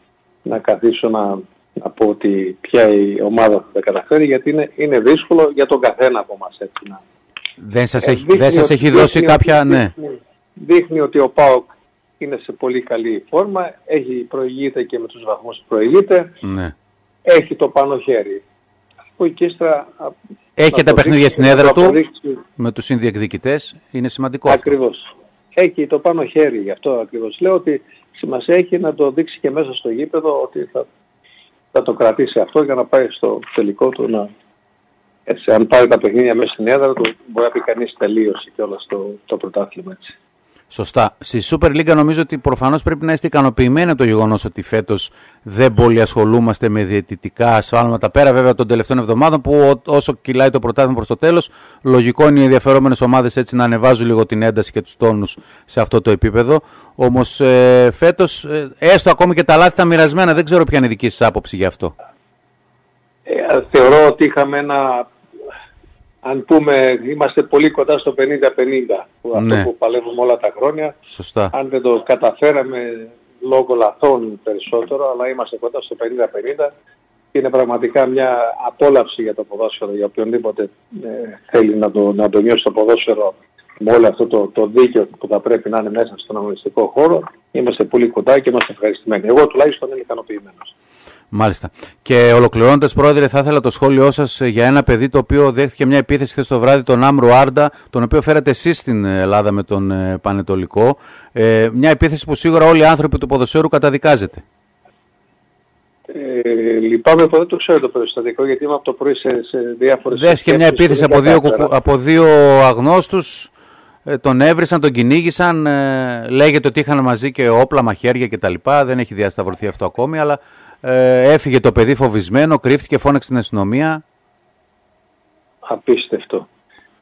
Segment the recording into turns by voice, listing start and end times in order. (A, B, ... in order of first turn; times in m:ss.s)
0:00.4-0:07.0 A
0:07.6-0:09.9 B
0:08.0-0:16.3 A
0:16.4-0:16.7 B
0:17.2-0:18.4 A
0:19.2-0:20.1 A
0:20.6-0:22.0 B
0:20.7-0:22.4 A
0:22.6-0:24.7 B
0:24.5-0:30.9 A
0:31.7-0:34.3 A
0:35.3-0:40.1 A
0:40.7-1:01.9 B
1:03.3-1:05.1 A
1:06.2-1:10.9 A
1:09.3-1:09.7 B
1:11.1-1:11.5 B
1:11.5-1:16.7 A
1:17.3-1:30.7 A
1:31.3-1:44.4 B
1:46.1-1:51.7 A
1:50.1-1:53.5 B
1:54.0-2:04.0 B
2:05.6-2:06.4 A